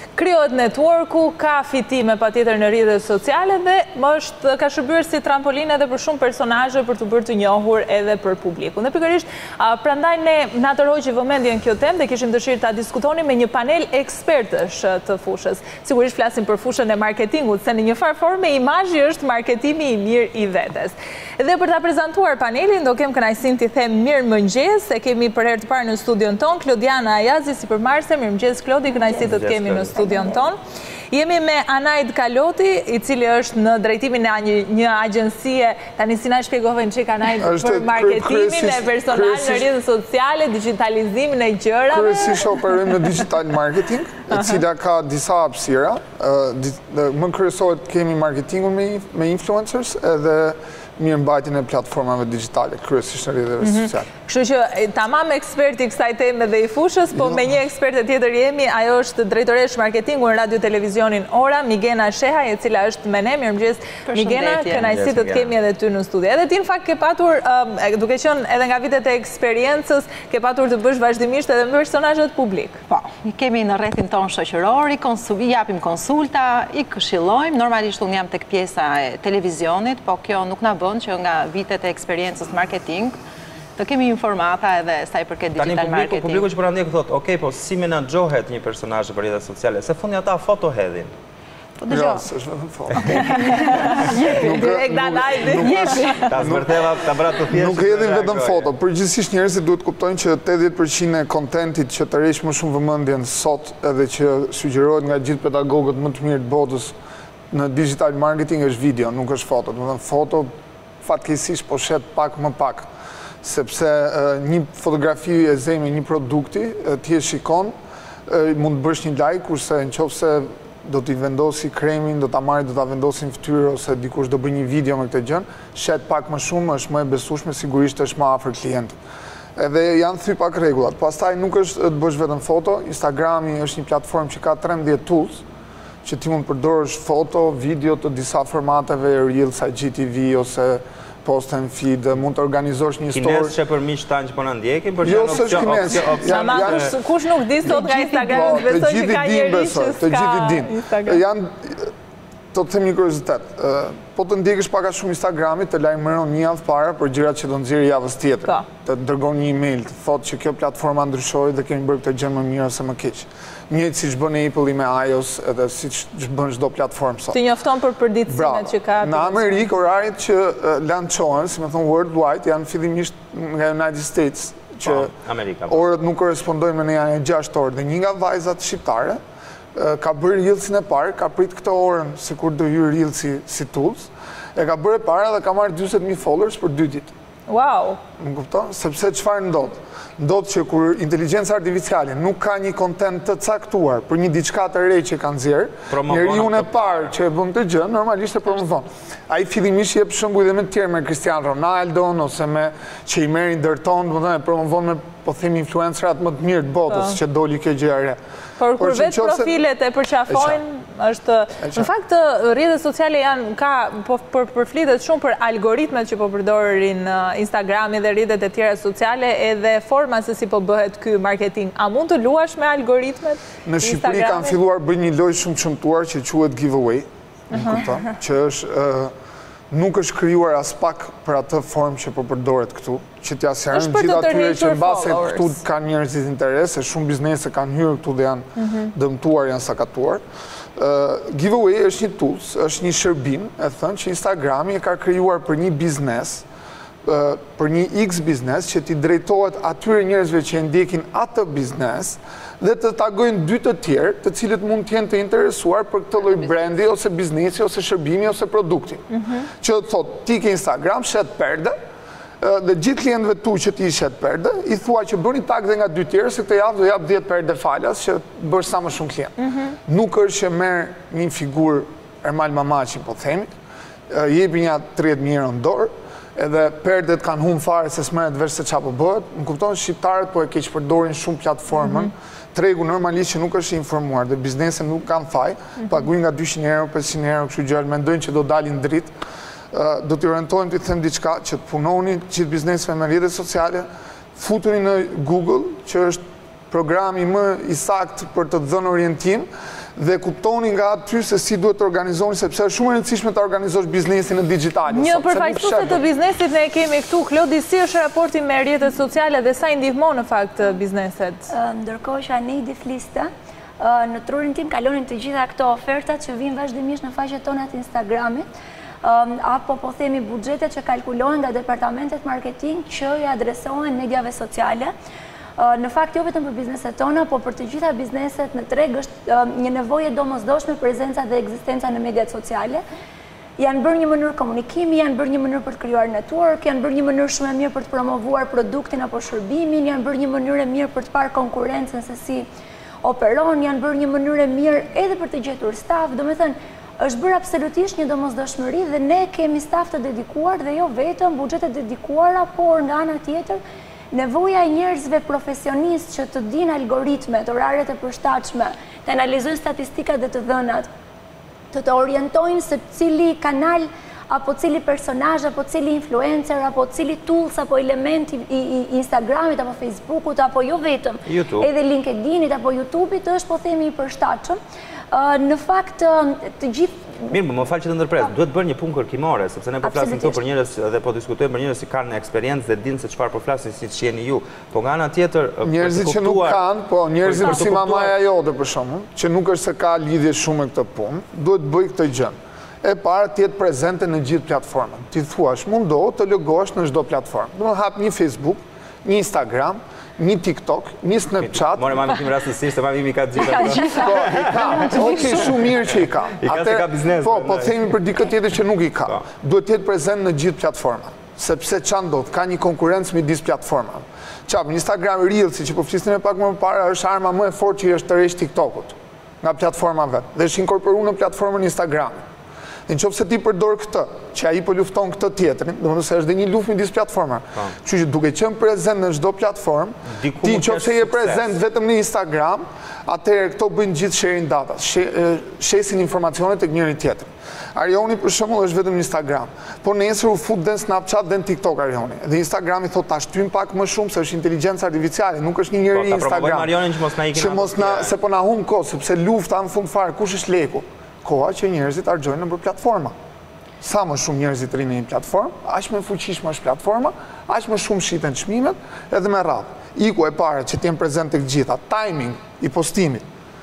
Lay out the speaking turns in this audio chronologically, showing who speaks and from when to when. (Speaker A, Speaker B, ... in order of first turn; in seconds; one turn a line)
Speaker A: 0.1-30.6
Speaker B: 28.9-30.5
Speaker C: 29.1-29.9
Speaker A: 31.1-42.6
Speaker D: 37.4-39.7
Speaker D: 41.9-54.1
Speaker A: 44.3-44.6
Speaker A: 53.6-72.8
Speaker D: 57.1-57.5
Speaker E: 64.1-64.9
Speaker C: 64.8-65.5
Speaker E: 72.9-83.2
Speaker E: 83.8-86.5
Speaker C: 85.6-91.1
Speaker E: 91.8-92.2
Speaker D: 91.8-107.0
Speaker E: 93.2-94.6
Speaker A: 93.2-96.3
Speaker E: 95.5-96.5
Speaker C: 96.3-98.7
Speaker D: 107.5-112.9
Speaker D: 113.4-117.7
Speaker D: 118.3-129.0
Speaker D: 129.6-135.4
Speaker D: 136.0-143.6
Speaker C: 143.1-146.9
Speaker D: 145.0-147.0
Speaker A: 146.2-151.2
Speaker D: 147.6-151.9
Speaker D: 152.5-167.4
Speaker A: 167.3-169.5
Speaker D: 168.2-175.1
Speaker C: 174.8-175.8
Speaker D: 175.7-179.2
Speaker D: 179.8-187.1
Speaker A: 187.5-188.0
Speaker D: 188.2-208.2
Speaker C: 195.9-197.1
Speaker A: 206.9-207.2
Speaker A: 208.6-224.5
Speaker D: 208.8-209.5
Speaker D: 210.3-210.6
Speaker D: 211.6-211.9
Speaker D: 223.7-229.1
Speaker A: 227.5-227.9
Speaker D: 229.7-240.2
Speaker A: 233.7-235.5
Speaker A: 238.6-238.9
Speaker D: 240.8-246.4
Speaker D: 247.0-261.8
Speaker A: 259.1-259.5
Speaker D: 262.4-273.5
Speaker D: 274.1-289.1
Speaker D: 289.7-306.0
Speaker A: 304.9-311.5
Speaker B: 311.5-318.4
Speaker B: 319.0-324.9
Speaker B: 325.6-332.8
Speaker B: 333.6-342.5
Speaker B: 343.0-353.6
Speaker B: 354.1-360.9
Speaker B: 361.7-374.6
Speaker C: 371.2-371.7
Speaker B: 375.1-377.3
Speaker C: 377.3-386.6
Speaker B: 379.8-380.4
Speaker D: 385.6-402.0
Speaker C: 387.2-388.1
Speaker C: 401.4-405.6
Speaker D: 403.6-422.2
Speaker C: 406.4-407.8
Speaker D: 422.9-446.8
Speaker C: 430.1-431.5
Speaker C: 445.9-448.1
Speaker D: 447.3-453.2
Speaker D: 453.8-463.2